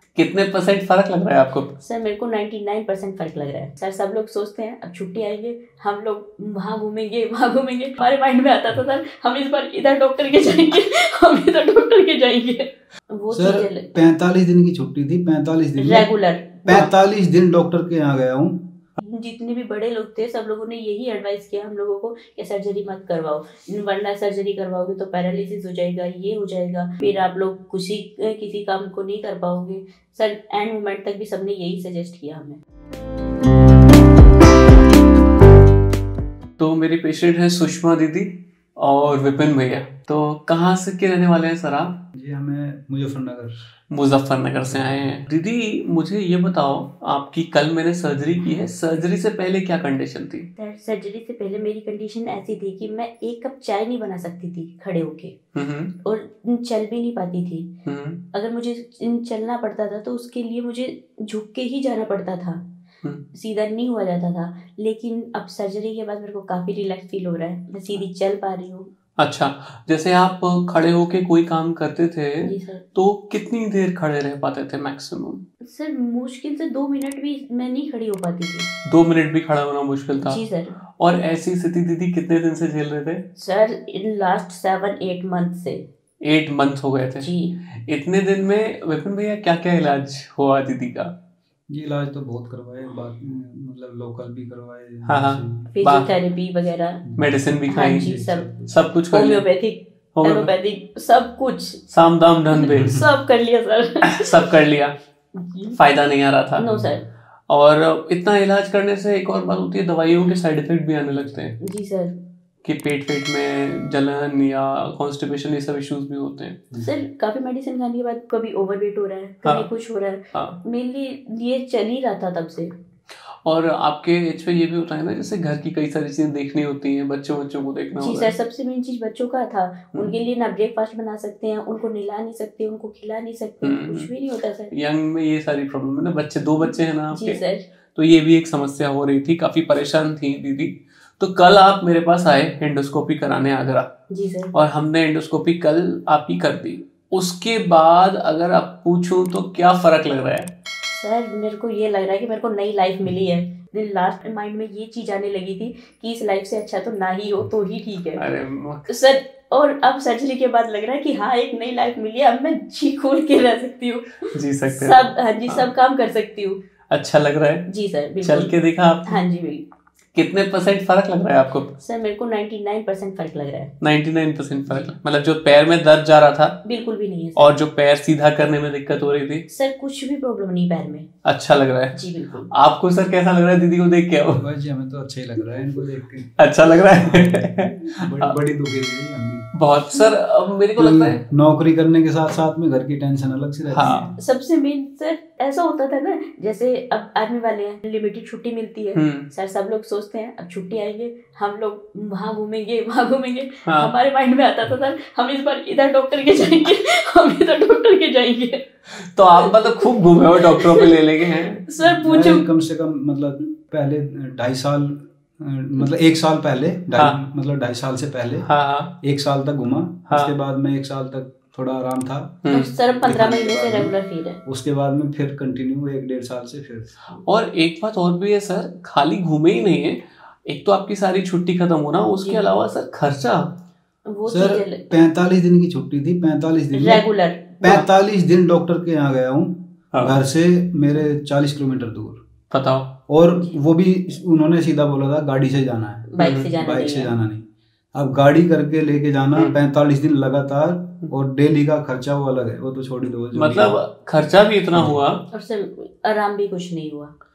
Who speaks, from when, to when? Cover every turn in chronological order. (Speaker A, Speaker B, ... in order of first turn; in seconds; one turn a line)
Speaker A: 0.1-1.7
Speaker B: 1.8-13.9
Speaker C: 13.3-16.1
Speaker B: 15.8-16.9
Speaker C: 16.6-18.7
Speaker B: 19.0-32.6
Speaker A: 36.6-42.0
Speaker C: 42.1-43.5
Speaker A: 43.9-50.5
Speaker C: 44.7-45.1
Speaker B: 50.6-55.4
Speaker A: 55.5-55.9
Speaker B: 56.0-57.7
Speaker A: 57.8-58.2
Speaker B: 58.3-62.6
Speaker B: 63.3-68.9
Speaker A: 69.2-75.4
Speaker B: 72.4-72.8
Speaker B: 75.6-78.7
Speaker A: 78.8-80.4
Speaker B: 80.2-80.8
Speaker A: 81.0-83.2
Speaker B: 83.4-85.9
Speaker A: 86.2-91.1
Speaker B: 87.2-87.6
Speaker C: 91.7-95.7
Speaker A: 95.0-96.1
Speaker B: 95.7-97.0
Speaker A: 97.2-99.4
Speaker B: 97.7-98.5
Speaker C: 98.0-98.7
Speaker B: 99.1-101.9
Speaker A: 100.1-100.5
Speaker A: 101.9-103.0
Speaker B: 102.5-104.3
Speaker C: 102.8-103.0
Speaker A: 104.0-105.0
Speaker B: 105.3-105.8
Speaker A: 105.8-106.7
Speaker B: 106.6-107.0
Speaker A: 107.5-111.5
Speaker B: 111.6-112.2
Speaker A: 112.6-116.6
Speaker B: 116.8-122.7
Speaker A: 119.4-119.7
Speaker A: 120.3-120.6
Speaker A: 123.4-128.3
Speaker B: 128.0-134.7
Speaker A: 133.6-134.1
Speaker A: 134.7-137.4
Speaker B: 136.6-137.7
Speaker A: 137.9-143.9
Speaker B: 144.1-144.5
Speaker A: 144.5-150.5
Speaker B: 150.9-158.3
Speaker A: 158.2-158.9
Speaker B: 158.9-166.6
Speaker A: 164.3-165.7
Speaker A: 166.9-169.2
Speaker B: 167.7-168.5
Speaker B: 169.1-169.7
Speaker A: 170.1-171.7
Speaker B: 171.8-173.7
Speaker A: 173.8-176.6
Speaker B: 176.6-177.6
Speaker A: 177.3-179.4
Speaker B: 179.5-181.1
Speaker A: 181.2-184.4
Speaker B: 181.9-182.5
Speaker C: 184.4-186.3
Speaker A: 186.4-188.3
Speaker C: 186.9-189.5
Speaker A: 189.6-191.2
Speaker C: 190.8-194.2
Speaker A: 193.7-194.1
Speaker B: 194.2-208.7
Speaker A: 198.9-199.3
Speaker A: 203.6-203.9
Speaker A: 209.0-211.6
Speaker B: 209.4-210.9
Speaker B: 211.7-212.4
Speaker C: 211.8-218.5
Speaker A: 218.4-218.9
Speaker C: 219.0-223.9
Speaker A: 220.1-220.3
Speaker A: 222.4-222.7
Speaker B: 222.5-224.4
Speaker C: 224.4-226.9
Speaker A: 227.2-233.5
Speaker B: 232.2-232.4
Speaker B: 234.1-234.9
Speaker C: 234.3-237.1
Speaker B: 236.7-237.8
Speaker C: 237.6-242.2
Speaker A: 239.9-240.2
Speaker A: 242.5-242.9
Speaker C: 243.1-253.8
Speaker B: 246.1-247.1
Speaker A: 246.2-246.5
Speaker A: 253.3-255.2
Speaker B: 255.3-257.1